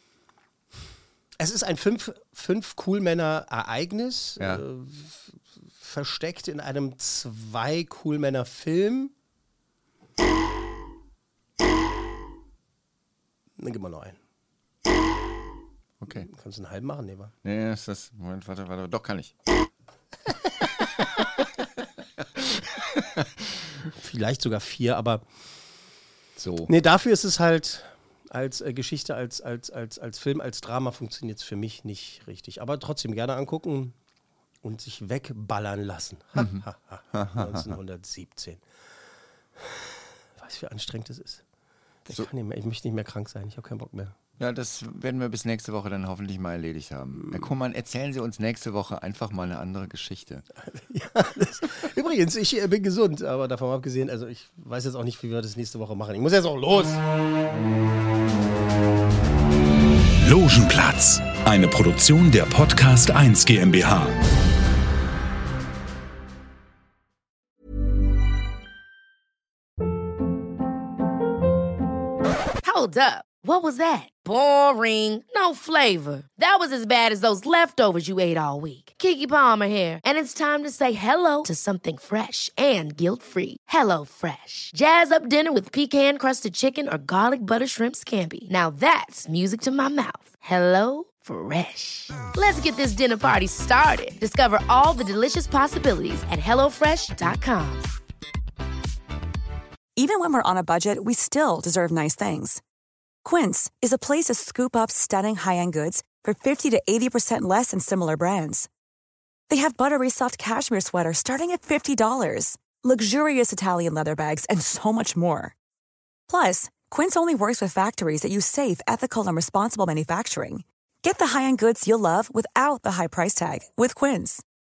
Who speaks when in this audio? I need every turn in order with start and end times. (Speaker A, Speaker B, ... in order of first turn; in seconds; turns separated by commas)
Speaker A: 1.4-9.1, Speaker A: 13.6-14.2, Speaker B: 16.0-16.3, Speaker A: 16.1-17.3, Speaker B: 17.4-19.3, Speaker B: 22.9-23.2, Speaker A: 24.0-25.2, Speaker B: 26.4-26.7, Speaker A: 26.7-33.9, Speaker A: 34.6-38.6, Speaker B: 36.4-37.7, Speaker A: 40.4-41.4, Speaker A: 42.0-44.1, Speaker B: 44.4-50.4, Speaker A: 50.7-57.0, Speaker C: 60.2-64.2, Speaker D: 72.6-97.9, Speaker E: 100.0-102.6, Speaker E: 103.2-108.7, Speaker E: 109.5-115.5, Speaker E: 116.3-124.4